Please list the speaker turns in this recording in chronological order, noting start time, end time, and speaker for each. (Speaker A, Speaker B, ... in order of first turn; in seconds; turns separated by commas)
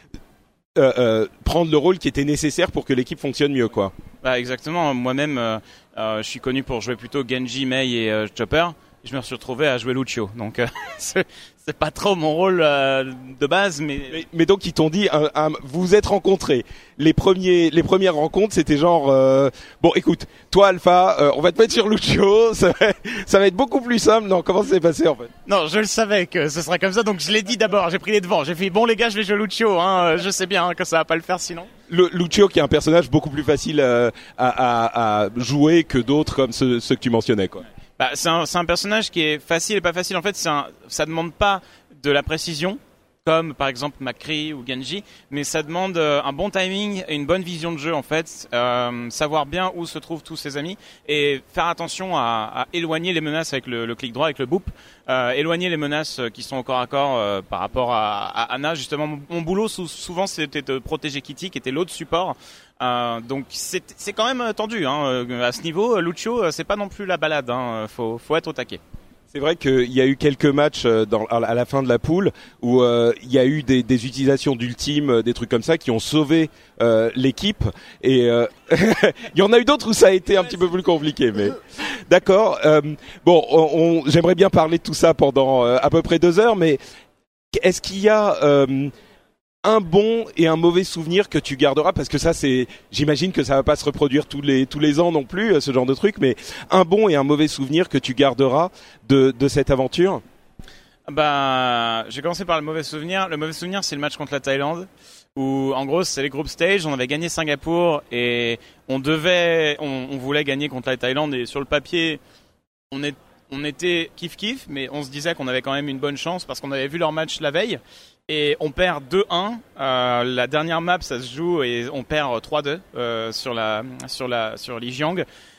Speaker A: 0.8-3.9, Speaker B: 4.2-14.2, Speaker A: 14.1-25.3, Speaker B: 25.4-31.7, Speaker A: 31.9-37.6, Speaker B: 38.0-68.8, Speaker A: 69.3-86.8, Speaker A: 87.5-88.9, Speaker A: 89.6-100.2, Speaker B: 101.1-112.2, Speaker B: 112.9-125.2